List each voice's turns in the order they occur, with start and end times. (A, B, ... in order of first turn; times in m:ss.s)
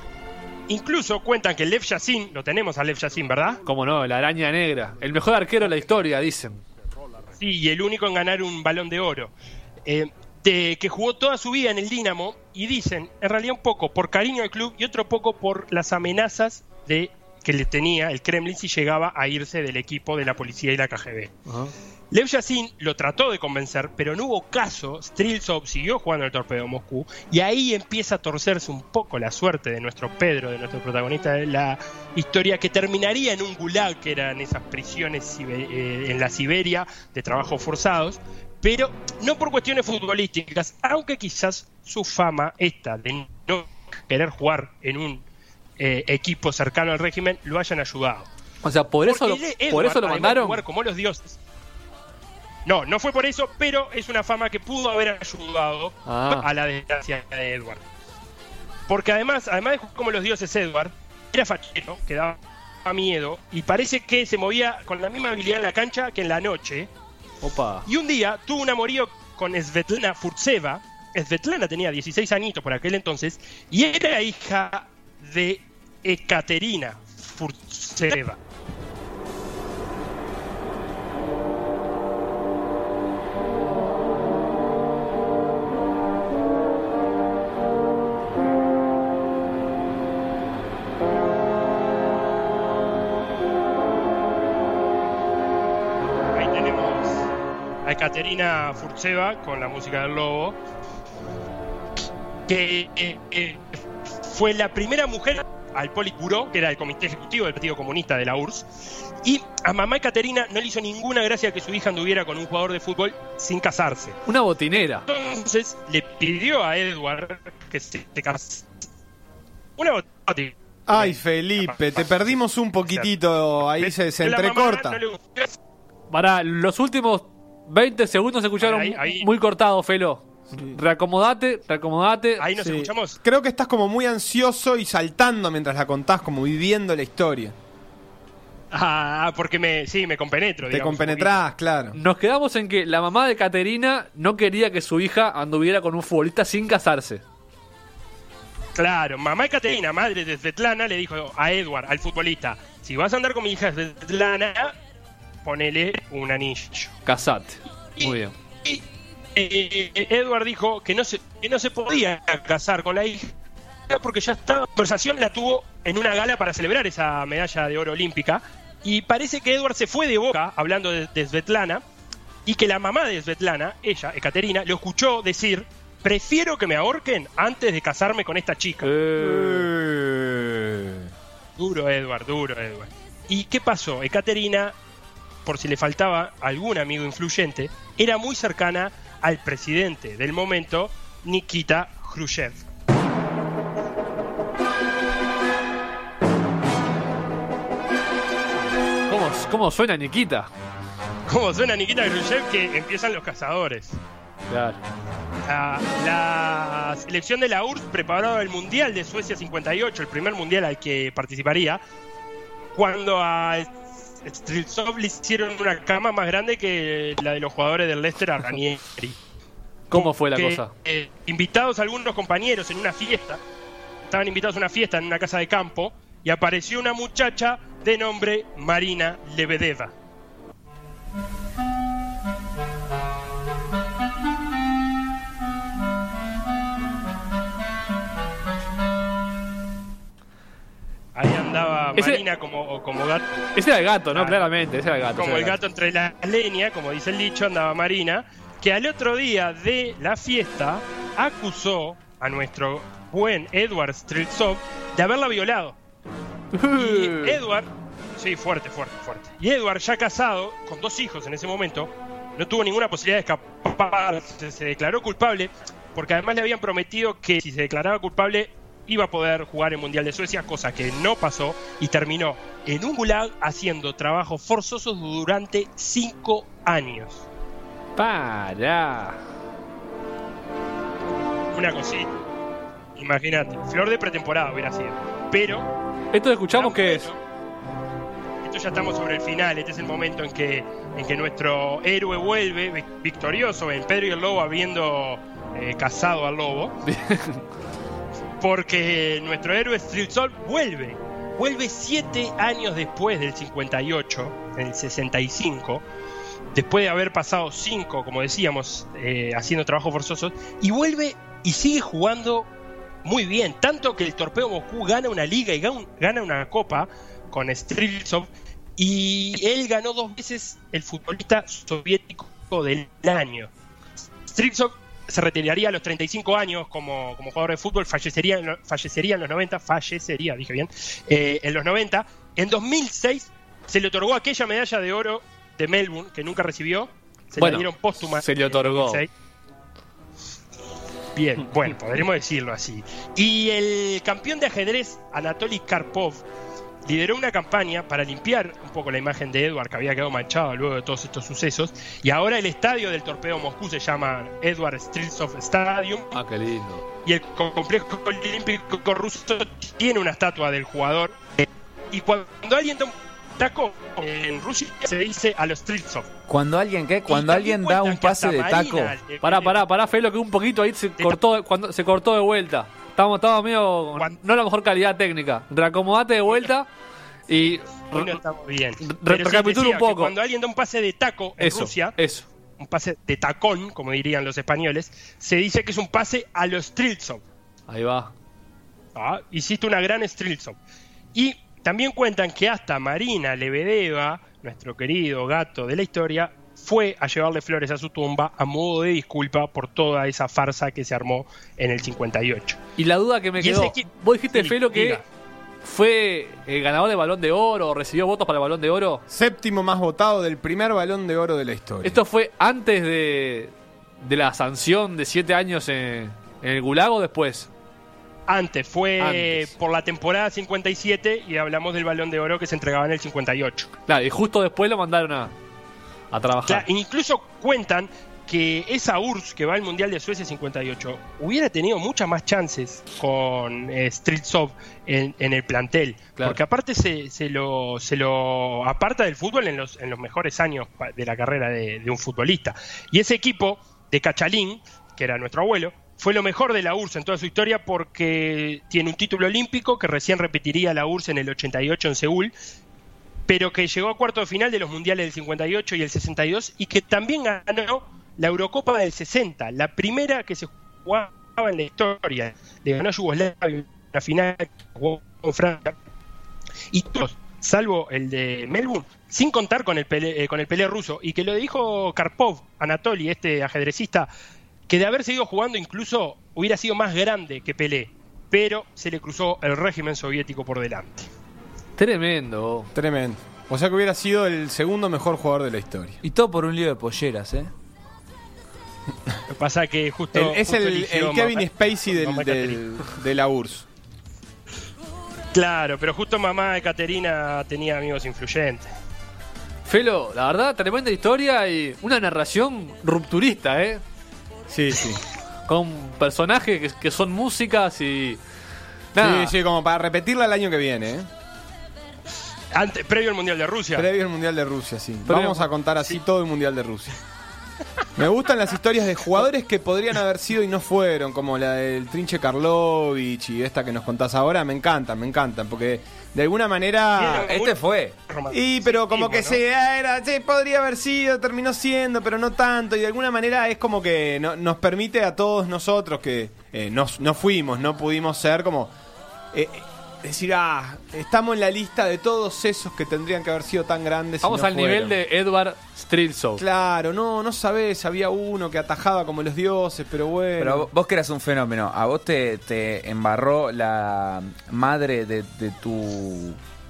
0:00.7-0:03.6 A
0:03.6-0:06.6 B
0:07.4-0:09.3 A
0:09.8-0:21.3 A
0:21.5-0:21.7 B
0:22.1-0:45.2 A
0:45.8-0:48.3 A
0:48.6-0:50.6 B
0:49.0-0:51.4 A
0:52.6-0:57.8 A
0:56.0-0:56.4 B
0:58.9-1:06.9 A
1:07.4-1:07.8 B
1:07.8-1:18.4 A
1:36.3-1:37.3 A
1:37.8-1:40.6 A
1:42.5-1:54.2 A
1:54.2-1:55.0 B
1:55.1-1:58.7 A
1:59.8-2:03.1 A
2:00.9-2:05.0 C
2:03.8-2:05.6 A
2:06.1-2:12.8 B
2:08.6-2:09.3 A
2:12.4-2:13.2 A
2:13.2-2:17.5 C
2:18.7-2:21.4 A
2:20.7-2:22.0 C
2:21.9-2:27.2 B
2:28.7-2:34.8 A
2:35.4-2:36.9 A
2:37.0-2:38.3 B
2:38.0-2:43.3 A
2:43.9-2:51.8 A
2:52.4-2:58.9 A
2:58.8-2:59.7 B
2:59.2-3:01.1 C
3:01.6-3:04.8 A
3:05.4-3:12.6 A
3:19.1-3:20.5 B
3:21.3-3:24.0 A
3:24.5-3:24.8 B
3:25.5-3:31.8 A
3:32.7-3:39.2 A
3:39.9-3:40.7 B
3:39.9-3:43.4 A
3:44.1-3:49.9 A
4:01.1-4:03.4 A
4:02.0-4:02.2 B
4:03.6-4:05.6 B
4:04.1-4:04.5 A
4:05.1-4:15.8 A
4:16.5-4:17.4 B
4:16.7-4:37.3 A
4:38.0-4:39.2 B
4:41.5-4:42.1 A
4:43.0-4:45.7 A
4:46.1-4:47.1 B
4:46.5-4:47.2 A
4:48.4-4:56.8 A
4:56.8-4:57.4 B
4:58.4-5:05.8 A
5:06.5-5:12.5 A
5:13.0-5:23.5 A
5:24.2-5:39.1 A
5:37.4-5:39.0 B
5:41.1-5:46.2 A
5:46.8-5:56.2 A
5:56.1-5:56.8 B
5:57.0-6:06.1 A
6:06.3-6:09.0 D
6:07.1-6:09.6 A
6:09.2-6:16.7 B
6:17.3-6:18.2 B
6:17.9-6:22.0 A
6:18.8-6:20.1 B
6:21.4-6:22.3 B
6:22.6-6:27.2 A
6:27.7-6:28.1 B
6:28.9-6:30.6 A
6:31.1-6:42.6 A
6:42.8-6:45.0 B
6:43.4-6:45.0 A
6:45.6-6:49.0 B
6:49.1-6:52.0 C
6:51.8-6:57.5 B
6:58.3-7:03.7 A
6:59.0-6:59.5 B
7:03.9-7:05.3 B
7:06.1-7:06.6 B
7:06.4-7:32.3 A
7:33.3-7:45.8 A
7:46.7-7:54.1 A
7:54.7-8:01.1 A
8:01.8-8:02.7 B
8:02.7-8:06.0 C
8:06.0-8:07.5 D
8:09.3-8:12.6 A
8:10.1-8:13.7 C
8:15.3-8:18.7 A
8:19.6-8:23.8 B
8:24.5-8:25.0 C
8:25.5-8:28.2 B
8:28.9-8:29.3 B
8:29.0-8:31.1 C
8:32.5-8:33.9 A
8:33.7-8:37.0 C
8:35.1-8:35.5 B
8:38.0-8:47.4 C
8:47.0-8:49.4 A
8:47.2-8:47.9 D
8:48.3-8:58.7 C
8:59.3-9:05.0 C
9:04.2-9:06.4 B
9:06.4-9:10.7 C
9:10.4-9:16.4 D